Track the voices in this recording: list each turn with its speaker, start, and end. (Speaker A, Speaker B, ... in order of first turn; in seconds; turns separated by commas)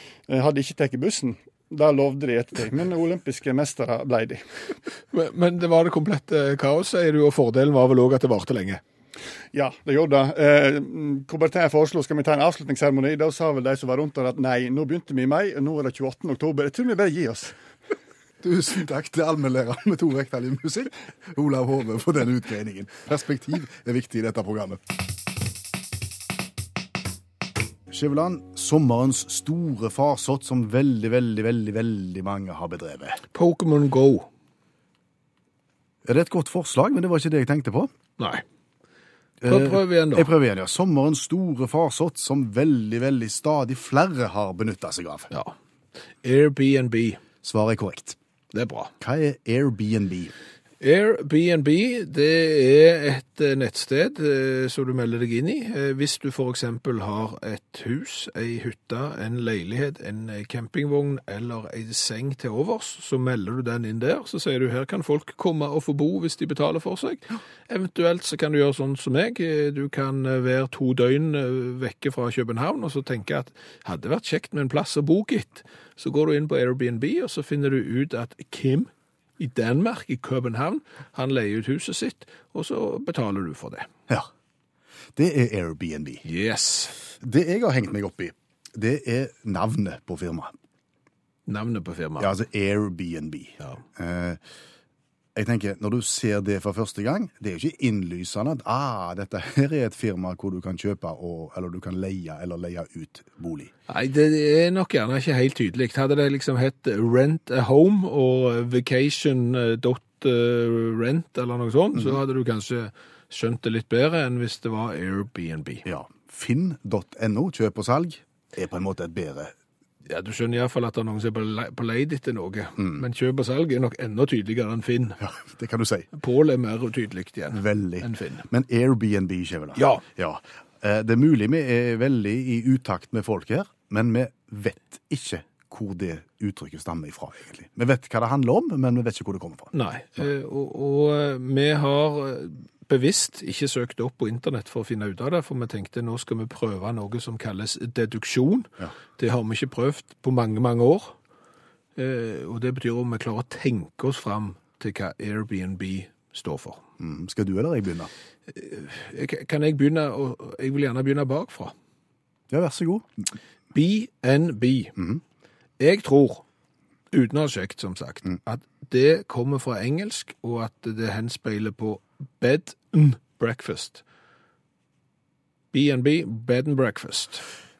Speaker A: 0.3-4.4, Speaker B: 5.1-8.8, Speaker A: 9.5-17.6, Speaker C: 18.4-24.8, Speaker C: 27.9-33.2, Speaker B: 33.3-34.3, Speaker C: 36.0-37.9, Speaker B: 38.2-38.4, Speaker C: 39.4-45.3, Speaker B: 39.5-40.3, Speaker B: 46.2-47.2, Speaker C: 47.4-48.2, Speaker B: 48.5-48.9, Speaker C: 49.0-50.3, Speaker B: 50.8-83.9, Speaker C: 85.2-86.2, Speaker B: 86.2-87.0, Speaker C: 87.2-90.5, Speaker B: 91.5-92.3, Speaker C: 92.2-94.4, Speaker C: 95.3-103.7, Speaker B: 103.9-115.8, Speaker C: 111.9-112.2, Speaker C: 115.8-119.5, Speaker B: 120.1-125.2, Speaker C: 125.2-126.1, Speaker B: 126.1-128.5, Speaker C: 127.5-139.7, Speaker B: 129.8-130.0, Speaker B: 139.7-151.2, Speaker B: 152.0-156.8, Speaker C: 157.0-158.1, Speaker B: 158.5-161.7, Speaker C: 162.5-163.3, Speaker B: 163.7-165.0, Speaker B: 165.8-166.4, Speaker B: 167.1-174.0, Speaker B: 175.7-177.4